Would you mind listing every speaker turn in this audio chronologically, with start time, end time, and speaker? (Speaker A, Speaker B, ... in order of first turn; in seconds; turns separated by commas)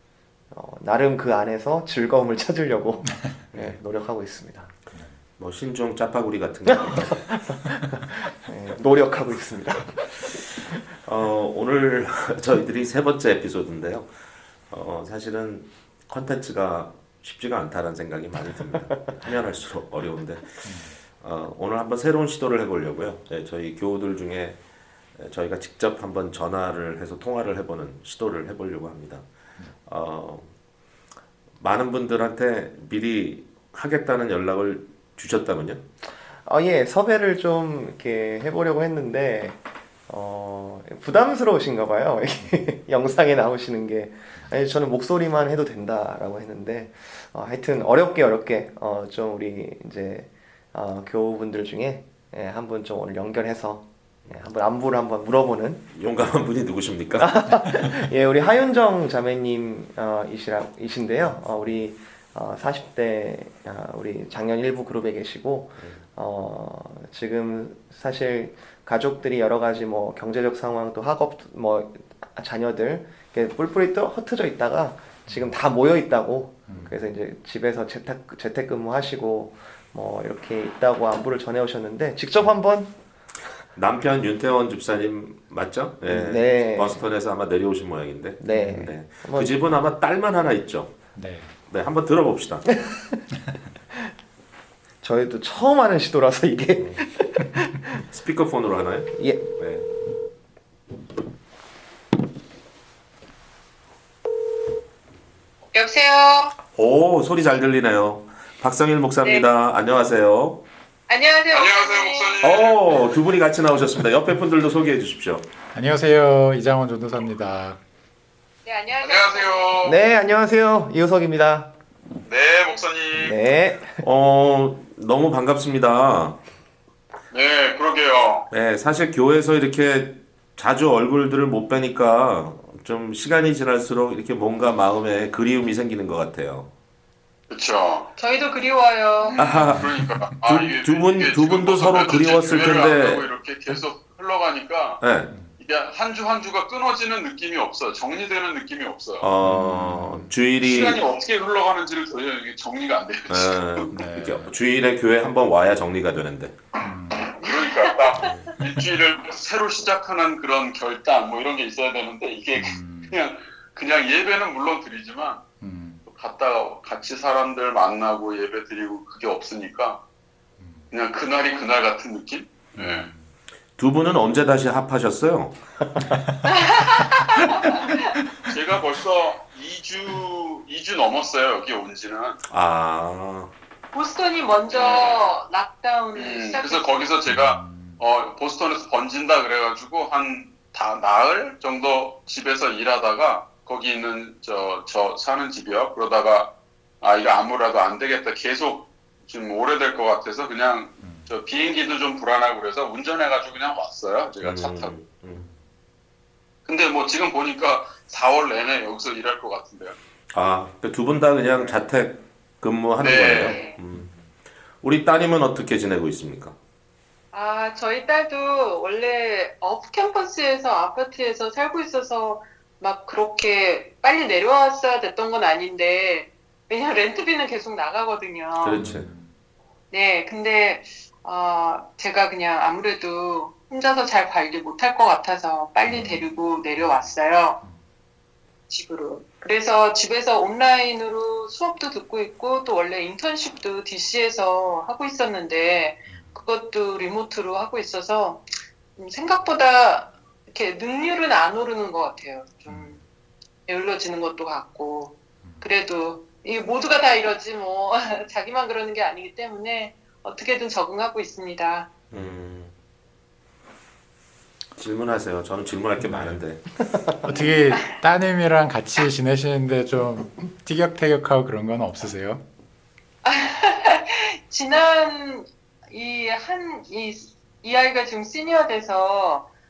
Speaker A: 0.5-4.8, Speaker B: 3.1-3.5, Speaker C: 3.5-3.8, Speaker C: 5.4-7.4, Speaker A: 6.7-10.8, Speaker C: 11.1-14.1, Speaker C: 14.7-24.6, Speaker B: 20.6-21.0, Speaker C: 25.1-29.2, Speaker C: 29.9-30.5, Speaker C: 31.6-35.8, Speaker A: 36.5-55.8, Speaker C: 55.9-57.8, Speaker A: 57.2-82.9, Speaker B: 76.7-77.0, Speaker C: 83.7-91.0, Speaker A: 86.1-87.1, Speaker A: 88.4-89.6, Speaker B: 91.2-91.6, Speaker C: 91.7-92.8, Speaker A: 92.8-93.2, Speaker A: 95.0-98.0, Speaker C: 98.1-99.9, Speaker A: 99.1-99.4, Speaker D: 105.7-106.6, Speaker C: 106.8-110.6, Speaker D: 111.1-112.4, Speaker E: 111.5-113.1, Speaker C: 112.4-115.5, Speaker B: 115.7-117.8, Speaker D: 118.7-119.8, Speaker E: 119.0-120.0, Speaker A: 119.8-121.7, Speaker E: 122.3-123.4, Speaker A: 123.2-124.0, Speaker C: 124.0-126.4, Speaker E: 127.3-128.5, Speaker C: 128.5-136.7, Speaker E: 137.5-138.1, Speaker D: 138.2-139.4, Speaker E: 139.3-145.1, Speaker C: 139.4-139.9, Speaker B: 139.7-140.3, Speaker C: 140.4-143.3, Speaker C: 145.0-145.3, Speaker E: 145.6-149.3, Speaker C: 149.2-151.0, Speaker B: 149.4-150.3, Speaker E: 150.6-153.9, Speaker C: 153.3-156.6, Speaker B: 153.9-154.5, Speaker B: 156.8-157.4, Speaker E: 157.3-165.4, Speaker D: 157.4-157.9, Speaker C: 158.2-158.5, Speaker B: 162.6-163.2, Speaker B: 165.6-166.0, Speaker E: 166.1-170.0, Speaker B: 170.6-170.9, Speaker E: 170.9-173.1, Speaker B: 172.8-173.3, Speaker C: 173.8-175.8, Speaker B: 176.1-176.4, Speaker D: 176.5-178.1, Speaker E: 178.5-182.4, Speaker C: 182.5-183.5, Speaker D: 183.9-187.1, Speaker E: 184.7-185.3, Speaker E: 186.1-204.9, Speaker B: 187.3-188.0, Speaker B: 201.0-201.3, Speaker C: 204.4-205.5, Speaker E: 206.7-209.9, Speaker C: 210.3-214.1, Speaker E: 213.0-213.6, Speaker D: 213.4-213.8, Speaker B: 213.9-214.2, Speaker C: 214.8-216.6, Speaker D: 217.3-228.9, Speaker C: 228.6-229.1, Speaker B: 228.7-229.3, Speaker D: 229.9-237.6, Speaker B: 235.9-237.8, Speaker D: 238.7-248.4, Speaker B: 246.1-246.4, Speaker D: 249.0-253.0, Speaker B: 252.7-253.0, Speaker D: 253.7-261.9, Speaker B: 262.1-262.4, Speaker C: 262.1-262.7, Speaker C: 264.8-266.6, Speaker B: 266.0-266.4, Speaker A: 266.9-267.2, Speaker B: 267.2-272.4, Speaker D: 273.2-279.5